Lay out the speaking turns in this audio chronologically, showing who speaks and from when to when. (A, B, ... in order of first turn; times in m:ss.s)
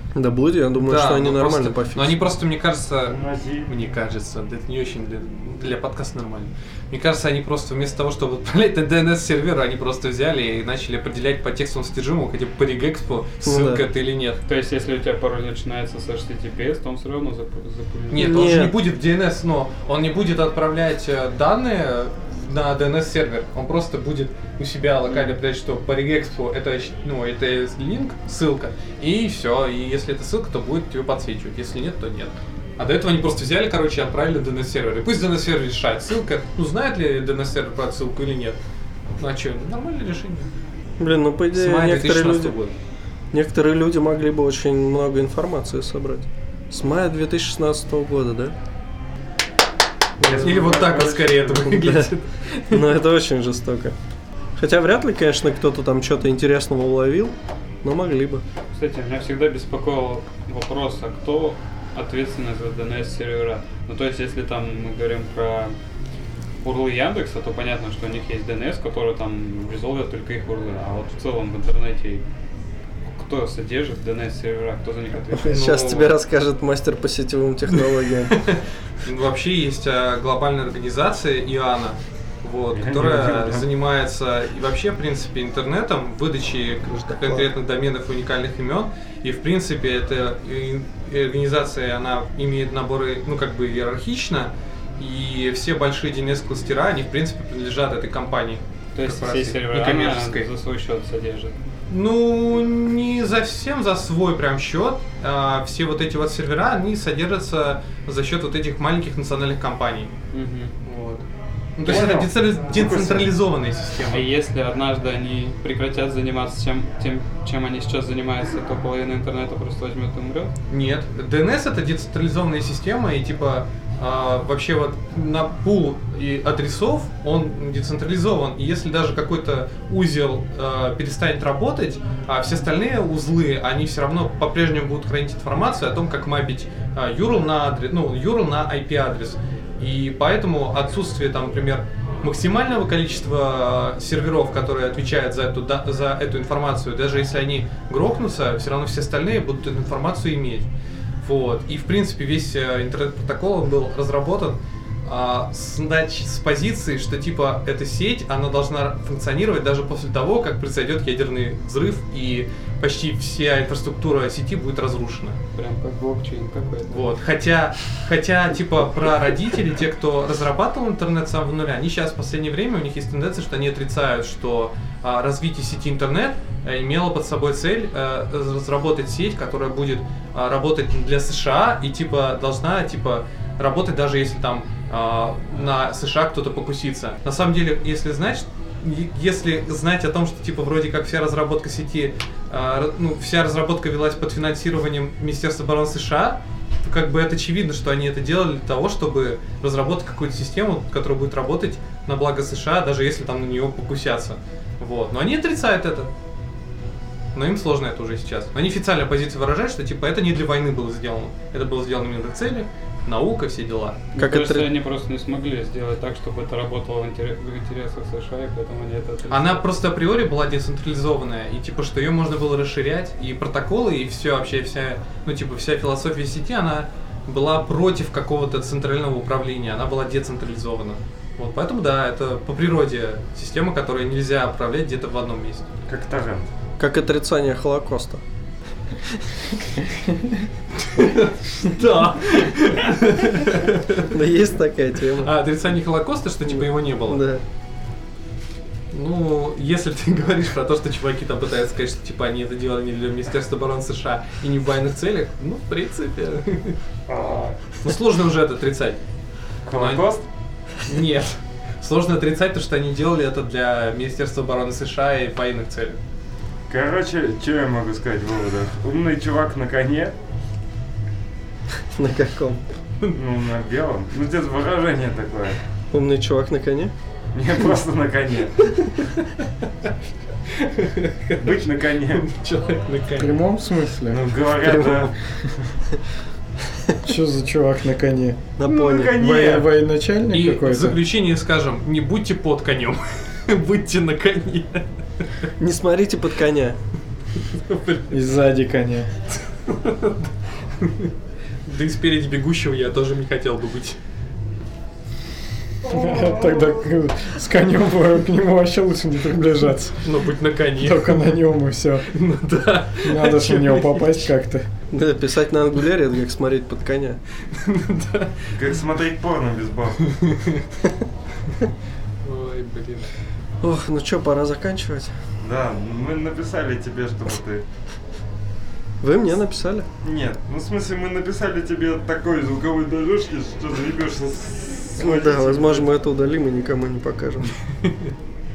0:00.2-0:02.2 A
0:00.8-0:14.4 B
0:03.1-0:03.7 C
0:13.4-0:13.8 A
0:14.4-0:18.4 D
0:18.1-0:38.6 B
0:18.1-0:18.7 A
0:25.0-0:25.4 D
0:39.2-0:40.5 B
0:41.0-0:42.6 A
0:41.5-0:42.7 B
0:43.3-0:48.5 A
0:50.2-0:52.1 A
0:50.2-0:53.0 B
0:50.2-0:51.4 C
0:52.7-0:53.9 A
0:54.6-0:58.4 A
0:58.7-1:05.7 D
1:06.6-1:12.2 D
1:13.1-1:16.1 D
1:15.3-1:18.4 A
1:15.6-1:16.0 B
1:17.8-1:40.5 B
1:22.7-1:23.7 C
1:27.0-1:27.4 A
1:38.9-1:41.5 D
1:41.9-1:50.1 B
1:50.3-1:50.7 D
1:50.8-1:54.3 B
1:51.8-1:53.3 C
1:54.0-2:00.5 D
2:00.7-2:30.7 B
2:31.2-2:45.4 B
2:45.6-2:47.0 D
2:46.9-3:26.1 B
3:27.3-3:34.1 B
3:34.1-3:39.6 D
3:34.2-3:34.7 A
3:39.3-3:55.7 B
3:55.9-3:56.5 C
3:56.8-3:58.2 A
4:00.8-4:04.2 B
4:04.1-4:05.3 A
4:05.2-4:07.2 B
4:06.4-4:07.4 A
4:08.9-4:16.8 B
4:17.1-4:17.6 C
4:17.8-4:19.0 B
4:19.6-4:20.3 C
4:19.7-4:20.2 B
4:20.8-4:26.0 B
4:26.7-4:30.2 C
4:31.9-4:32.6 A
4:33.1-4:35.6 C
4:35.9-4:36.9 A
4:37.3-4:38.5 C
4:39.0-4:39.4 B
4:40.5-4:43.4 B
4:41.4-4:42.2 C
4:43.2-4:44.2 E
4:44.1-4:45.7 C
4:44.7-4:45.1 A
4:47.0-4:48.4 E
4:48.6-4:49.2 A
4:48.6-4:49.7 C
4:49.1-4:51.0 E
4:50.3-4:54.8 B
4:55.6-4:56.8 A
4:57.5-4:58.2 B
4:58.1-4:59.1 E
4:59.7-5:01.1 B
5:01.6-5:04.0 B
5:05.8-5:10.1 E
5:06.1-5:06.6 C
5:10.0-5:11.3 B
5:10.8-5:12.1 E
5:12.1-5:14.3 B
5:13.0-5:14.6 E
5:14.9-5:17.2 A
5:17.5-5:18.5 B
5:18.5-5:20.0 C
5:20.1-5:20.6 B
5:22.2-5:23.1 B
5:23.6-5:25.1 A
5:25.4-5:27.6 C
5:29.0-5:29.9 A
5:30.0-5:36.0 C
5:35.0-5:37.5 A